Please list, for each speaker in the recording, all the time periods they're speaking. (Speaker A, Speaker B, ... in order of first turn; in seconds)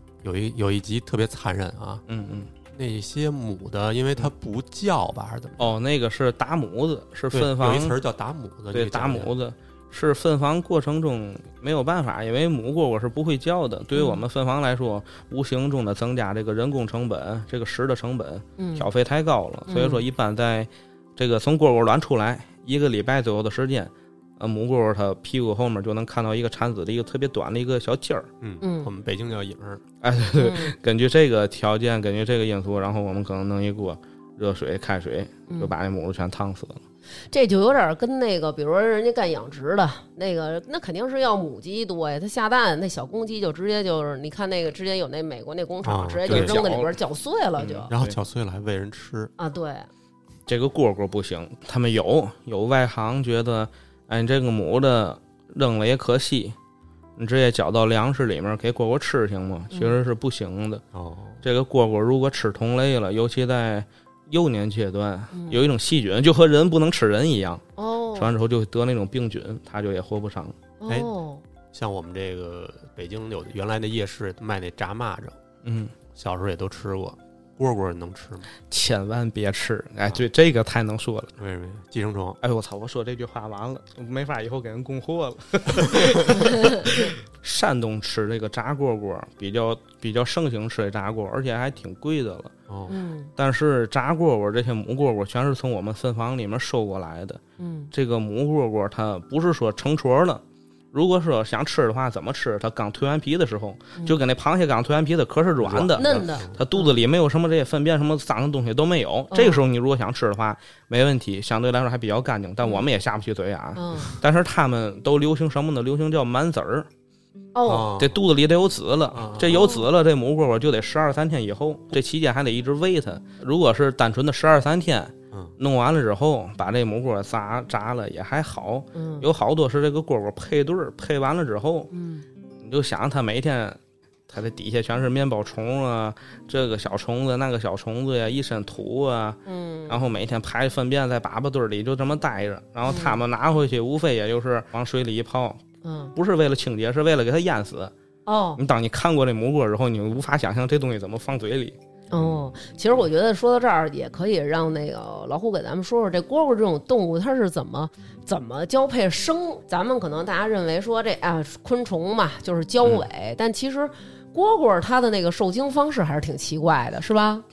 Speaker A: 0.2-2.0, 2.7-5.7, 7.3-9.3, 28.4-29.8, 45.8-46.7, 47.9-49.3, 60.9-61.4, 71.7-75.4, 76.1-78.5, 81.4-82.4, 92.7-93.0, 105.6-106.6, 117.7-118.2, 119.1-119.8, 152.2-152.5
Speaker B: 2.1-2.5, 5.6-8.0, 8.7-28.3, 30.0-36.8, 46.3-46.9, 47.6-48.2, 50.5-56.6, 57.2-60.8, 61.4-67.6, 68.2-70.6, 75.6-75.9, 78.7-81.3, 82.4-92.5, 93.4-97.4, 97.9-100.4, 100.9-116.9, 118.0-131.9, 132.6-133.8, 134.3-145.6, 146.2-147.9, 148.6-151.8
Speaker C: 13.9-14.2, 18.6-18.9, 19.7-20.1, 28.6-28.9, 30.4-30.8, 37.3-47.9, 49.4-49.9, 59.7-60.0, 65.3-65.6, 67.8-68.3, 70.8-71.4, 92.9-93.3, 97.6-97.9, 106.0-106.9, 109.3-109.6, 112.6-112.9, 113.8-114.2, 117.5-117.9, 119.5-119.9, 128.9-129.3, 131.9-132.2, 139.5-140.1, 142.8-143.2, 145.8-146.1, 148.3-148.6, 152.1-167.4